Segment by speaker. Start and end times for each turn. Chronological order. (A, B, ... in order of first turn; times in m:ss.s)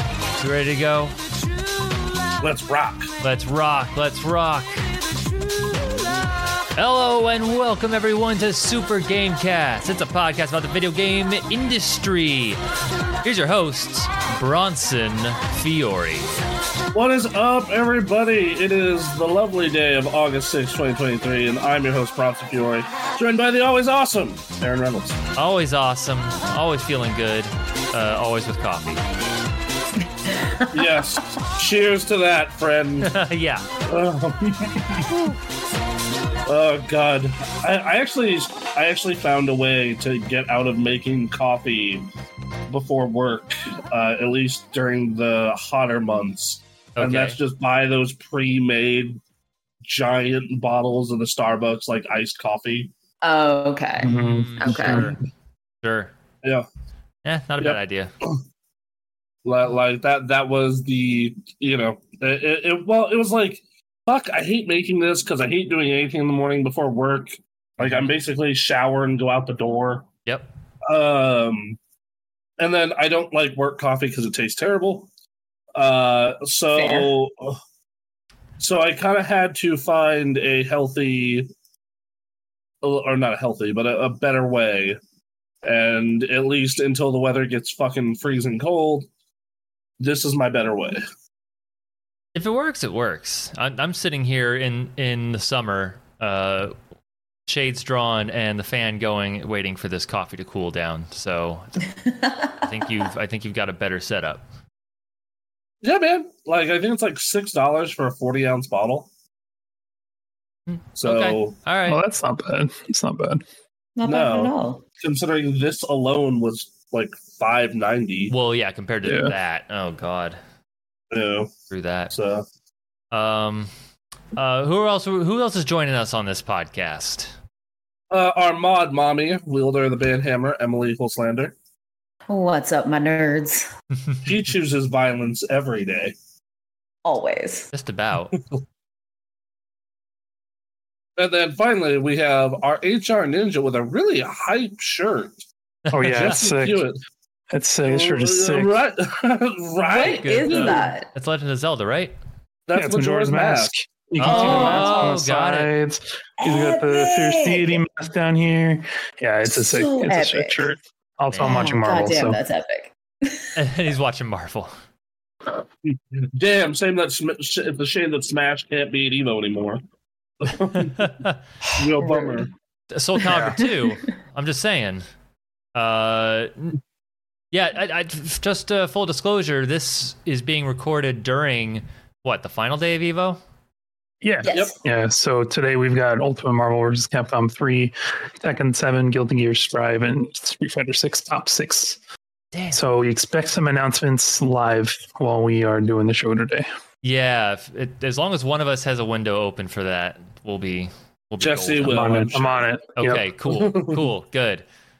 0:00.4-0:01.2 A
0:02.4-0:03.1 B
0:03.2-0:04.8 A
0:06.8-0:12.6 A
0:13.2-0:16.3 A
0:16.9-0:25.2 B
0:25.3-0:29.0 A
0:30.7-0:33.1 B
0:33.0-0:33.6 A
0:33.9-0:35.1 B
0:36.4-0:42.1 B
0:42.7-0:49.2 B
0:47.0-0:47.4 A
0:49.8-0:52.9 B
0:53.2-0:55.1 C
0:54.0-0:55.2 D
0:54.1-0:55.2 A
0:55.8-0:56.1 A
0:57.2-0:58.1 A
0:57.6-0:58.4 B
0:59.4-1:10.1 B
1:07.8-1:08.1 A
1:10.8-1:11.8 B
1:12.6-1:15.1 B
1:15.7-1:17.6 B
1:16.7-1:17.1 C
1:18.6-1:21.5 B
1:22.8-1:25.0 B
1:25.6-1:29.1 B
1:30.0-1:31.0 B
1:32.3-1:36.7 A
1:37.5-1:41.9 A
1:42.0-1:42.5 C
1:42.6-1:44.4 A
1:45.8-1:49.1 B
1:50.7-1:52.0 A
1:51.0-1:51.6 B
1:51.8-1:53.4 D
1:54.0-1:54.8 C
1:54.0-1:58.3 B
1:58.3-2:00.4 A
1:59.0-1:59.3 D
2:01.1-2:01.5 B
2:01.7-2:02.1 A
2:02.1-2:02.4 B
2:03.1-2:03.7 A
2:04.3-2:07.4 A
2:08.1-2:11.6 B
2:12.3-2:13.7 C
2:14.2-2:16.2 B
2:17.0-2:17.7 C
2:17.7-2:18.3 A
2:21.2-2:25.4 B
2:25.9-2:26.8 D
2:25.9-2:26.3 A
2:26.0-2:27.0 B
2:27.5-2:28.8 D
2:27.8-2:30.9 B
2:29.8-2:31.1 C
2:30.0-2:32.1 A
2:32.7-2:33.7 B
2:32.7-2:42.4 D
2:34.2-2:35.7 A
2:34.2-2:35.2 C
2:36.4-2:37.8 C
2:39.5-2:40.7 C
2:41.3-2:41.8 A
2:41.4-2:43.5 C
2:43.5-2:44.7 A
2:45.8-2:49.8 B
2:50.4-2:51.1 B
2:50.8-2:51.4 A
2:51.8-2:52.5 B
2:52.0-2:52.4 C
2:52.9-2:55.0 A
2:53.3-2:53.6 D
2:55.7-2:56.8 A
2:57.5-3:03.4 A
3:04.2-3:12.0 D
3:04.4-3:04.7 C
3:12.5-3:12.8 A
3:12.7-3:16.7 D
3:17.0-3:22.3 A
3:21.4-3:22.6 B
3:21.8-3:23.2 D
3:23.0-3:24.6 A
3:23.5-3:24.0 B